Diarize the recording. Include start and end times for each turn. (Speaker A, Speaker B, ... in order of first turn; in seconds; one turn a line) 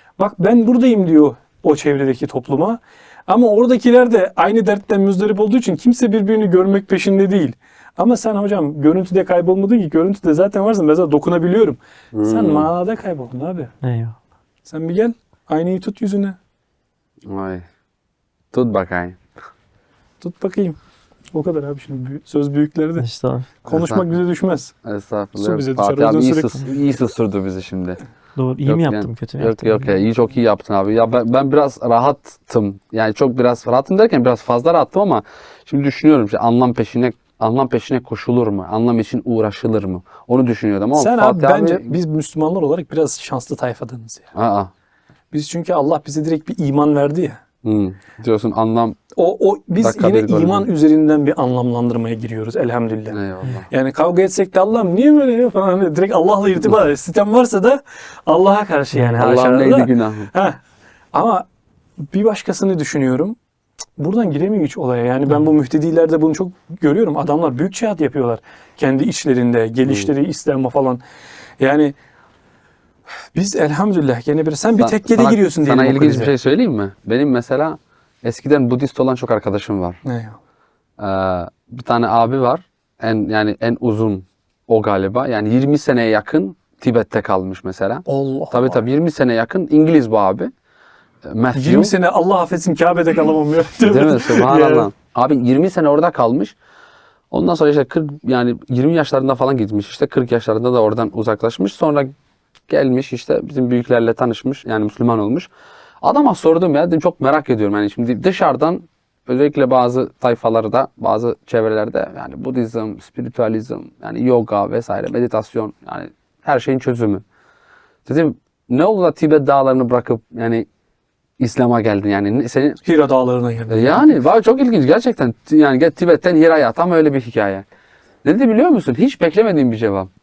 Speaker A: 0.2-13.7
Speaker B: 12.1-12.7
Speaker C: 13.8-14.2
Speaker A: 14.7-16.4
Speaker B: 17.3-17.7
Speaker B: 18.5-19.2
Speaker A: 20.2-20.8
Speaker A: 21.3-23.1
Speaker C: 23.0-23.5
Speaker A: 23.6-24.7
Speaker B: 23.7-24.1
Speaker B: 24.8-28.0
Speaker A: 25.4-26.7
Speaker C: 28.4-30.1
Speaker B: 28.7-41.9
Speaker A: 41.0-44.3
Speaker B: 44.4-44.7
Speaker A: 45.3-47.4
Speaker B: 47.6-49.0
Speaker A: 49.1-60.6
Speaker B: 49.8-50.7
Speaker B: 53.1-53.7
Speaker C: 58.9-59.2
Speaker B: 59.2-60.3
Speaker A: 61.1-61.5
Speaker A: 62.1-63.4
Speaker A: 64.0-71.0
Speaker B: 69.8-70.1
Speaker A: 71.6-72.0
Speaker A: 73.3-76.3
Speaker B: 74.8-80.0
Speaker A: 80.0-80.4
Speaker B: 81.0-90.5
Speaker A: 88.1-88.8
Speaker B: 91.2-91.9
Speaker A: 91.5-94.9
Speaker B: 93.9-96.5
Speaker B: 97.3-102.1
Speaker B: 102.7-105.5
Speaker B: 106.0-117.2
Speaker B: 118.0-120.7
Speaker B: 121.4-122.8
Speaker A: 122.8-124.2
Speaker B: 123.7-127.7
Speaker B: 128.2-130.1